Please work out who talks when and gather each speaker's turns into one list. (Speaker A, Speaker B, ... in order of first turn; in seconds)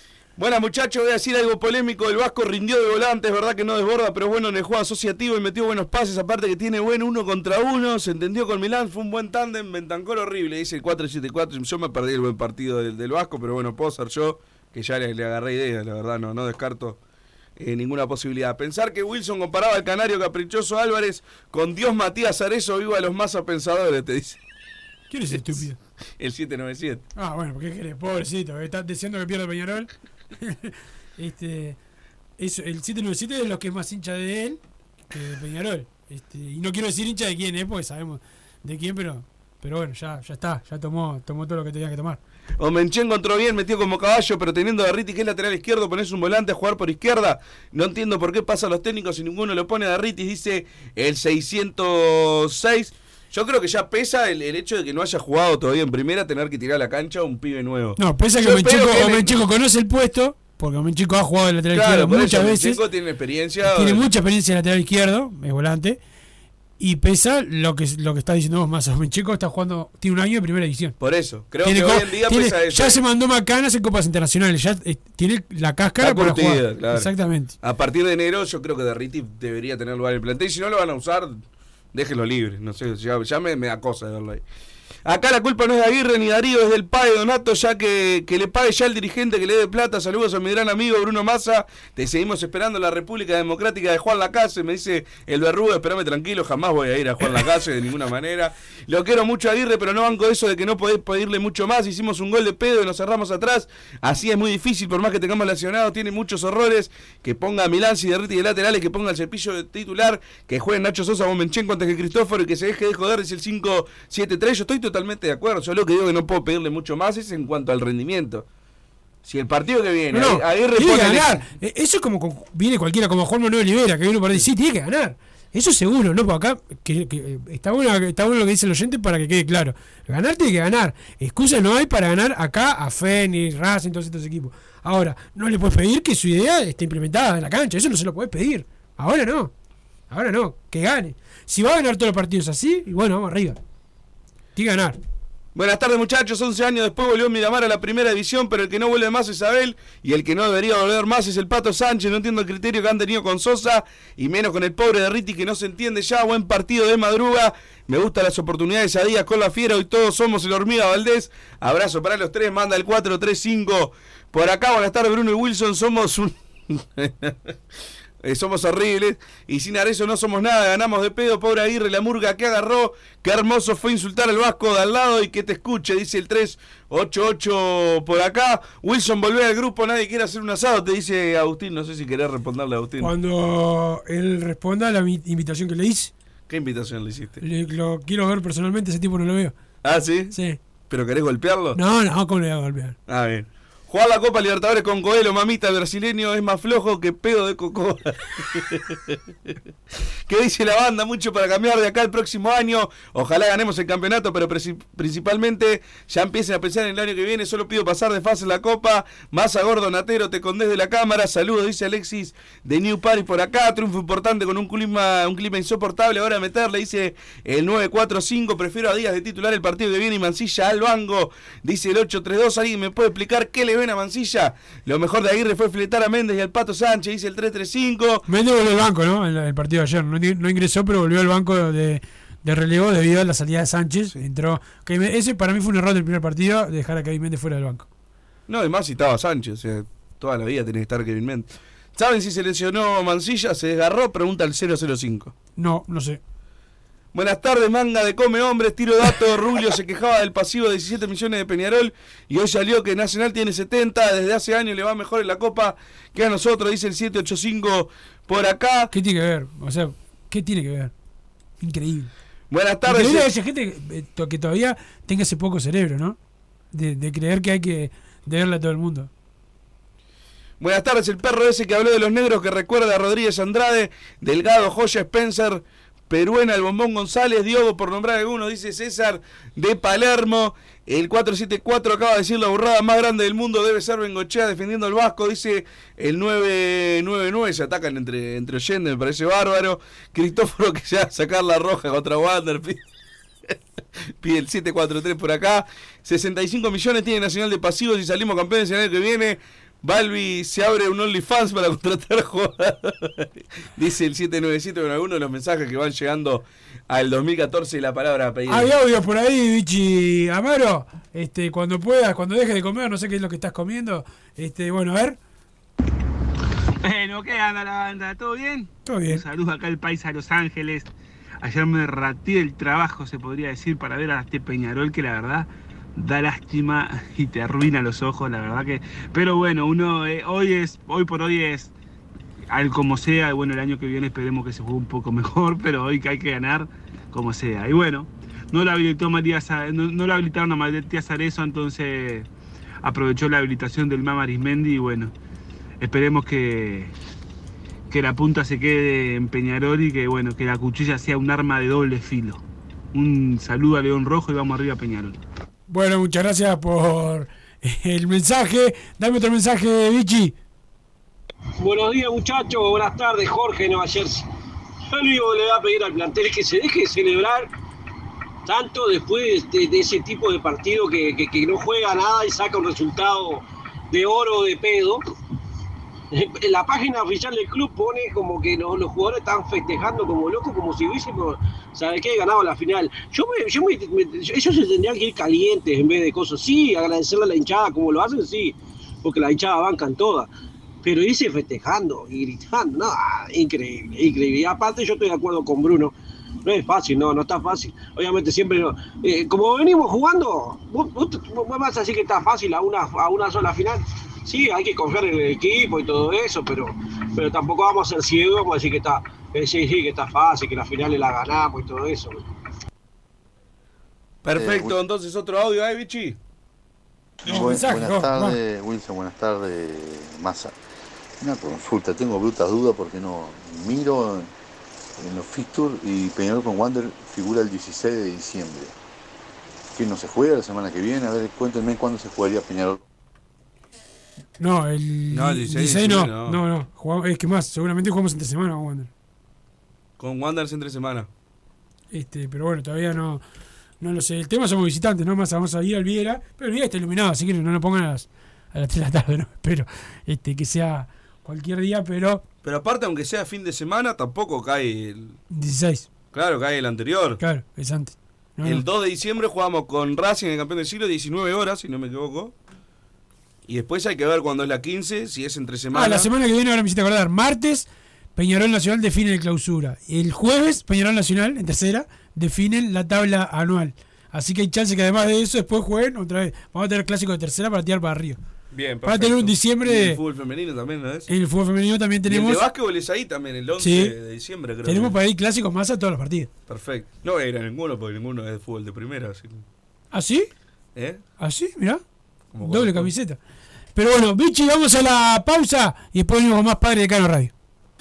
Speaker A: 0.4-17.0, 17.6-24.4, 25.3-25.6, 26.2-27.0, 42.6-59.4, 61.7-64.0, 71.0-73.0, 76.0-81.4, 81.9-84.4, 85.0-118.5, 119.2-121.4, 145.6-167.5, 168.2-183.1, 186.5-187.4, 189.8-190.3, 190.9-191.8, 193.1-199.2, 200.3-228.2, 238.5-245.3, 247.1-258.9, 262.5-263.3, 270.6-292.8, 294.2-308.7, 414.2-416.2, 435.1-436.4, 440.0-441.1, 452.4-455.2, 456.1-457.2, 458.4-462.3, 463.5-466.1, 478.5-481.1, 482.1-484.9, 486.5-489.4, 490.8-491.0, 492.3-492.9
Speaker B: 25.1-25.8, 27.2-31.8, 32.4-42.2, 58.0-62.8, 63.6-66.0, 66.8-71.0, 71.6-77.5, 120.1-139.5, 140.1-143.6, 144.6-145.0, 183.0-186.1, 187.4-189.6, 190.3-190.6, 191.8-193.0, 228.3-237.9, 245.6-246.2, 258.9-260.9, 261.6-262.1, 262.9-266.2, 266.7-269.1, 308.5-315.2, 318.9-319.2, 355.7-360.4, 417.2-418.4, 434.4-438.9, 441.9-443.2, 443.8-452.2, 455.3-455.9, 457.2-458.6, 465.7-478.2, 478.9-480.0, 481.1-482.4, 483.6-483.9, 484.7-486.3, 489.9-490.3, 491.2-491.8, 492.4-493.2, 493.8-497.3
Speaker C: 316.8-320.9, 321.4-331.7, 332.5-342.3, 342.8-345.1, 345.8-346.9, 347.9-355.2
Speaker D: 361.6-364.3, 364.9-367.5, 368.5-375.0, 376.1-390.3, 390.8-412.2
Speaker E: 414.3-414.8, 417.2-420.6, 421.2-424.3, 425.0-428.7, 429.7-432.8